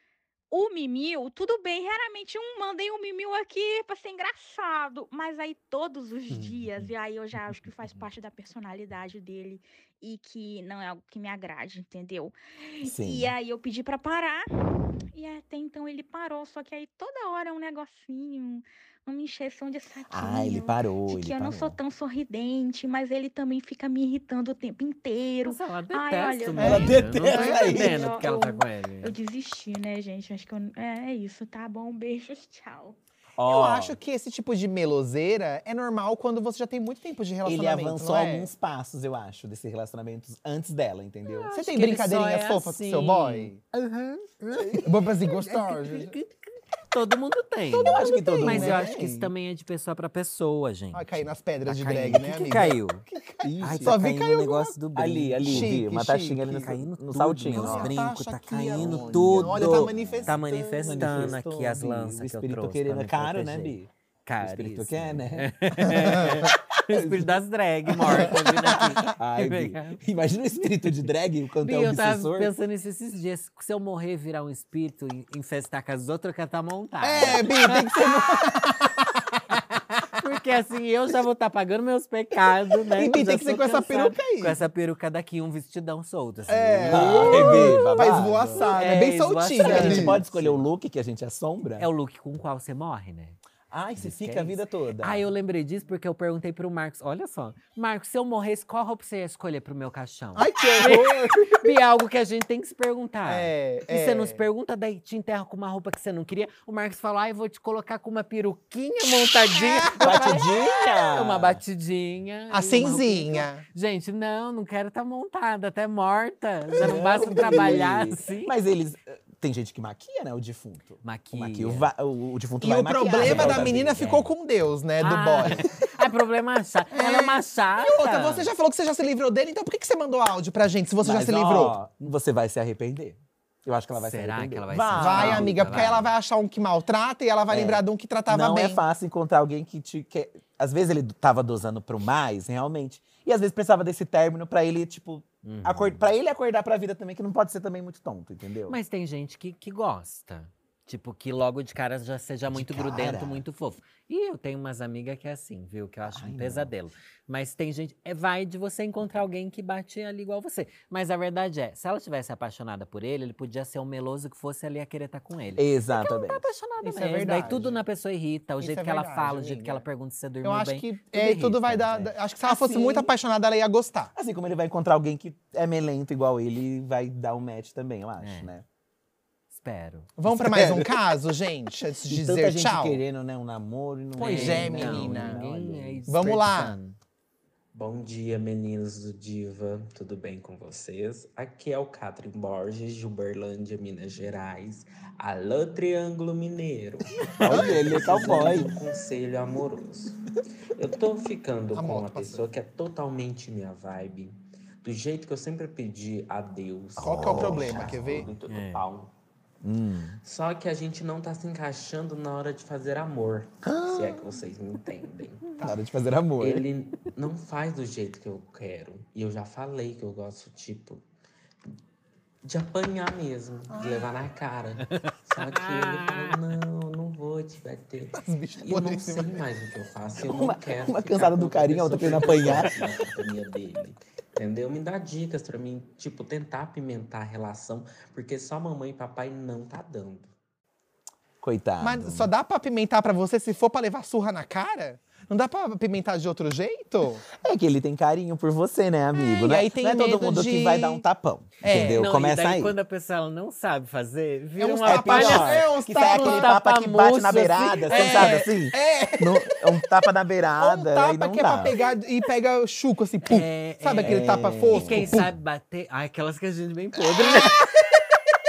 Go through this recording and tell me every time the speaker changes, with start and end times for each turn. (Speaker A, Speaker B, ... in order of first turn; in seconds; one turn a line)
Speaker A: 0.5-33.0
Speaker B: 6.3-6.9
Speaker C: 12.8-13.3
Speaker C: 20.1-21.8
Speaker B: 25.4-29.1
Speaker C: 26.6-28.1
Speaker D: 26.6-26.9
Speaker C: 33.4-34.0
Speaker D: 33.4-38.5
Speaker C: 37.5-41.5
Speaker B: 41.3-43.5
Speaker D: 41.5-46.1
Speaker C: 44.5-44.9
Speaker B: 45.3-46.3
Speaker B: 46.9-53.1
Speaker C: 47.7-49.0
Speaker D: 47.9-49.3
Speaker D: 50.9-54.8
Speaker C: 53.4-54.0
Speaker B: 53.6-55.8
Speaker C: 55.0-58.0
Speaker D: 55.5-56.7
Speaker B: 56.5-70.0
Speaker D: 57.5-61.4
Speaker C: 58.7-63.9
Speaker C: 64.4-67.3
Speaker C: 68.1-68.4
Speaker C: 69.1-72.5
Speaker B: 71.6-78.1
Speaker D: 77.0-79.2
Speaker B: 79.5-90.7
Speaker D: 83.0-84.6
Speaker D: 86.5-90.2
Speaker C: 86.9-88.7
Speaker C: 89.6-91.9
Speaker B: 91.8-93.4
Speaker C: 93.7-95.2
Speaker B: 94.0-118.6
Speaker D: 100.4-101.7
Speaker C: 100.6-101.1
Speaker D: 103.3-104.4
Speaker D: 109.5-110.4
Speaker C: 110.0-111.6
Speaker D: 112.5-113.6
Speaker C: 116.8-124.1
Speaker D: 117.3-117.8
Speaker B: 121.0-121.9
Speaker D: 122.6-125.7
Speaker B: 123.2-124.3
Speaker B: 125.0-128.5
Speaker D: 126.9-131.8
Speaker C: 131.0-136.1
Speaker B: 134.0-136.1
Speaker D: 135.0-138.8
Speaker C: 137.5-148.8
Speaker B: 145.4-146.1
Speaker B: 148.7-171.9
Speaker C: 152.5-153.4
Speaker C: 156.1-156.7
Speaker C: 165.6-166.4
Speaker D: 166.8-167.8
Speaker D: 168.6-169.8
Speaker D: 170.4-174.1
Speaker C: 171.9-173.1
Speaker C: 174.2-178.7
Speaker B: 178.2-178.5
Speaker B: 179.5-180.1
Speaker D: 180.2-183.0
Speaker C: 180.3-180.9
Speaker C: 182.0-186.1
Speaker D: 184.2-185.4
Speaker B: 184.2-187.0
Speaker D: 186.1-186.8
Speaker E: 187.7-200.2
Speaker B: 197.2-197.7
Speaker C: 197.4-198.8
Speaker E: 200.8-209.1
Speaker D: 201.7-202.5
Speaker C: 207.0-208.3
Speaker D: 207.0-208.3
Speaker B: 208.5-208.9
Speaker C: 209.6-210.2
Speaker E: 210.2-215.6
Speaker C: 213.6-214.4
Speaker C: 215.6-216.6
Speaker E: 216.4-221.0
Speaker E: 222.4-240.3
Speaker D: 223.7-224.1
Speaker B: 224.9-226.4
Speaker D: 228.2-229.4
Speaker C: 230.3-233.0
Speaker C: 241.4-242.3
Speaker D: 241.8-247.3
Speaker C: 247.4-252.8
Speaker D: 249.4-251.1
Speaker D: 251.6-252.1
Speaker B: 251.8-258.4
Speaker D: 254.6-256.5
Speaker C: 254.8-261.8
Speaker D: 257.9-259.8
Speaker D: 260.6-265.3
Speaker B: 263.3-267.9
Speaker C: 264.0-265.3
Speaker D: 267.2-268.2